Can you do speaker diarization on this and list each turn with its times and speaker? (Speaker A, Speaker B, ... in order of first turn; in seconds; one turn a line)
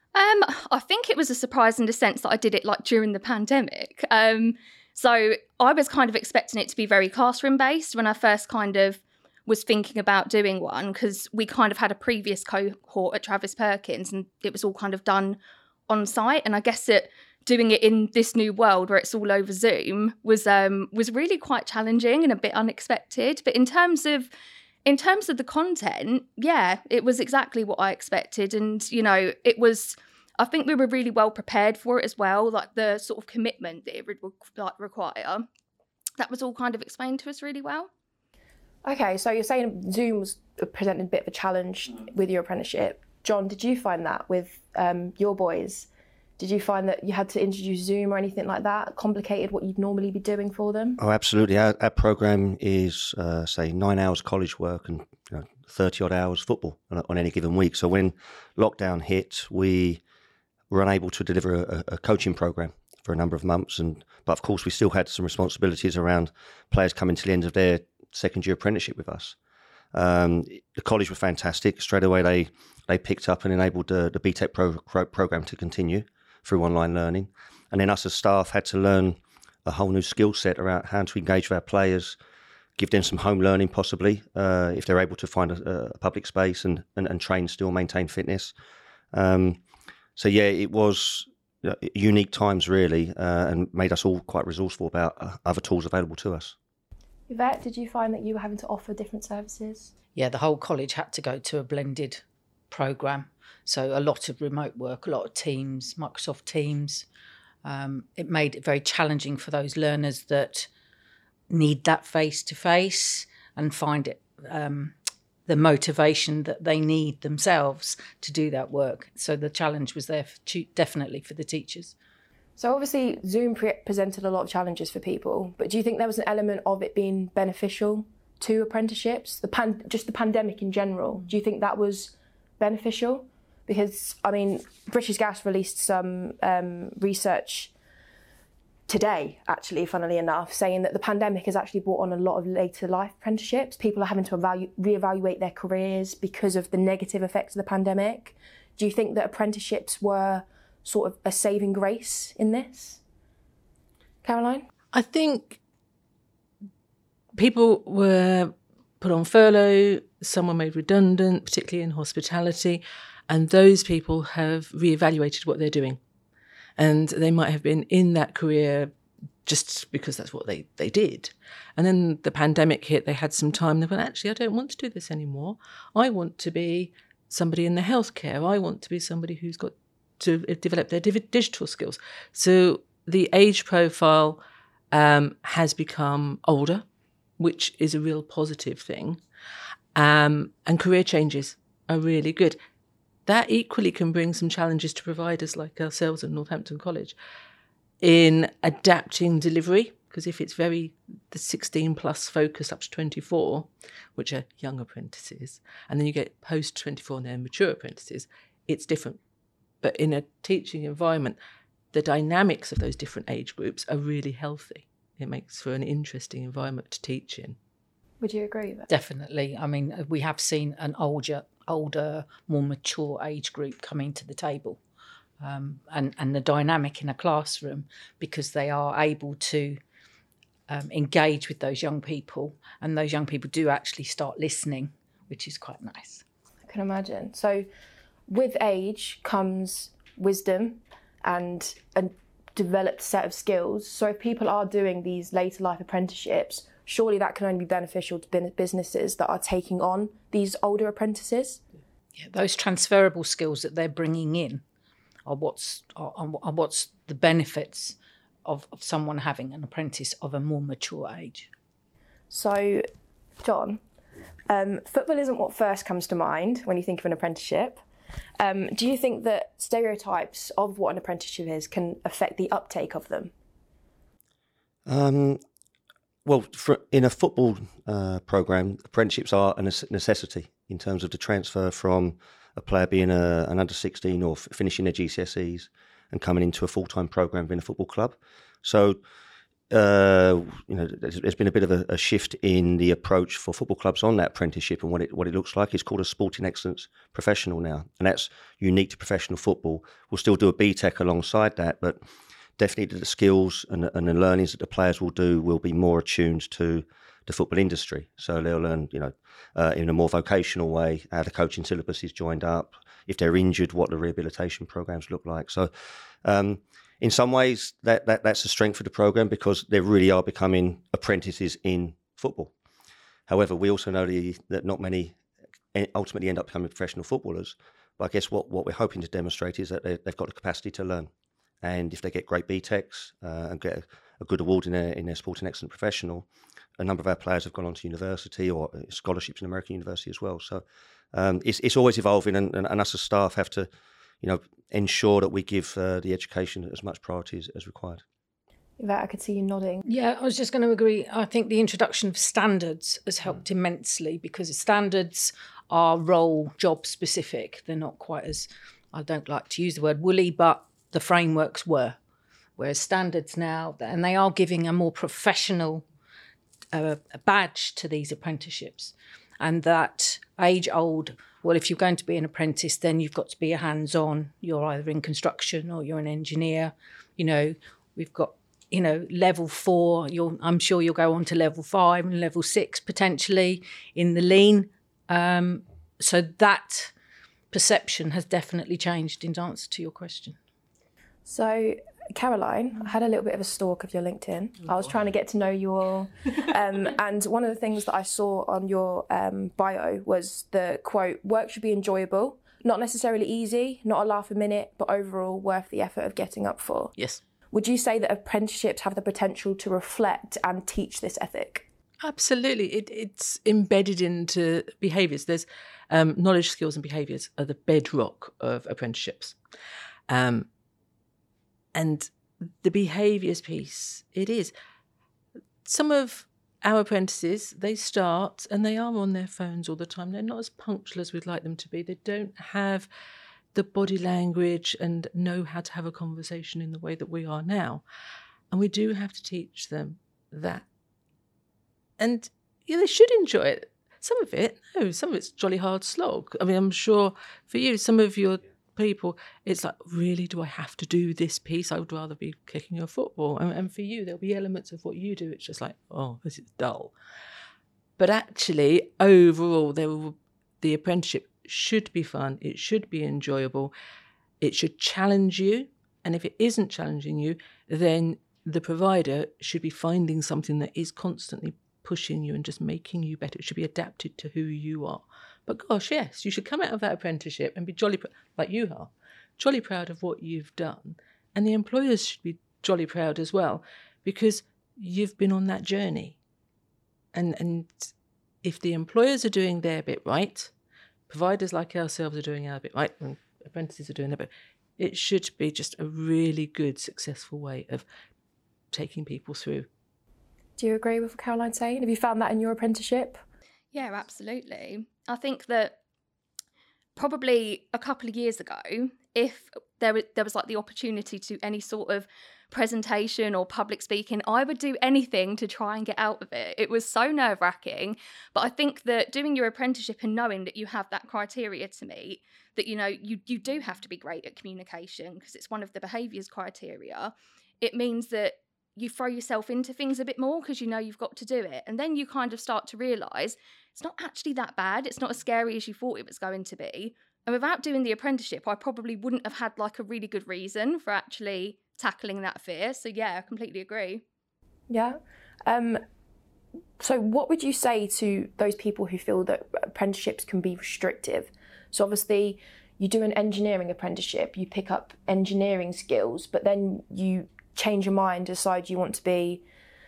Speaker A: 0.1-24.3
Speaker A: 24.9-35.5
Speaker A: 36.2-37.9
Speaker B: 38.8-45.9
Speaker B: 46.4-51.0
Speaker C: 51.0-60.0
Speaker C: 60.7-69.4
Speaker C: 69.9-82.2
Speaker C: 82.8-88.5
Speaker C: 89.1-89.6
Speaker C: 90.2-96.5
Speaker B: 97.3-99.9
Speaker D: 100.2-107.1
Speaker D: 107.6-110.7
Speaker D: 111.5-122.0
Speaker B: 122.6-137.7
Speaker B: 138.9-153.0
Speaker B: 154.2-154.7
Speaker E: 154.9-155.6
Speaker E: 157.3-166.0
Speaker E: 166.8-168.9
Speaker E: 169.4-186.8
Speaker E: 187.4-189.2
Speaker E: 189.9-192.6
Speaker E: 193.3-197.2
Speaker E: 198.0-209.2
Speaker E: 209.8-211.4
Speaker E: 211.9-217.6
Speaker B: 218.2-218.9
Speaker D: 218.9-224.8
Speaker D: 225.4-229.8
Speaker D: 230.7-236.2
Speaker B: 236.7-237.7
Speaker B: 238.3-251.6
Speaker D: 252.2-254.6
Speaker D: 255.3-261.5
Speaker B: 262.3-262.9
Speaker B: 263.4-263.8
Speaker B: 264.5-267.8
Speaker B: 268.4-273.3
Speaker C: 274.9-275.4
Speaker C: 276.2-289.0
Speaker C: 289.7-302.0
Speaker C: 302.6-315.7
Speaker C: 316.2-322.5
Speaker C: 323.3-325.2
Speaker C: 325.7-331.1
Speaker C: 331.6-343.7
Speaker C: 344.2-348.0
Speaker B: 348.8-349.8
Speaker D: 349.9-362.0
Speaker D: 362.6-365.9
Speaker D: 366.7-386.9
Speaker D: 387.5-390.4
Speaker B: 391.3-406.9
Speaker B: 407.5-411.6
Speaker E: 412.0-419.4
Speaker E: 420.1-420.5
Speaker E: 421.8-424.5
Speaker E: 425.6-432.9
Speaker E: 433.5-437.8
Speaker E: 438.5-440.6
Speaker E: 442.0-456.9
Speaker E: 458.0-463.7
Speaker E: 464.4-486.2
Speaker E: 487.1-487.9
Speaker E: 488.4-490.5
Speaker E: 491.1-497.9
Speaker E: 498.7-499.7
Speaker B: 500.6-503.2
Speaker A: 503.7-505.8
Speaker A: 506.9-544.0
Speaker B: 544.7-545.8
Speaker B: 546.8-559.4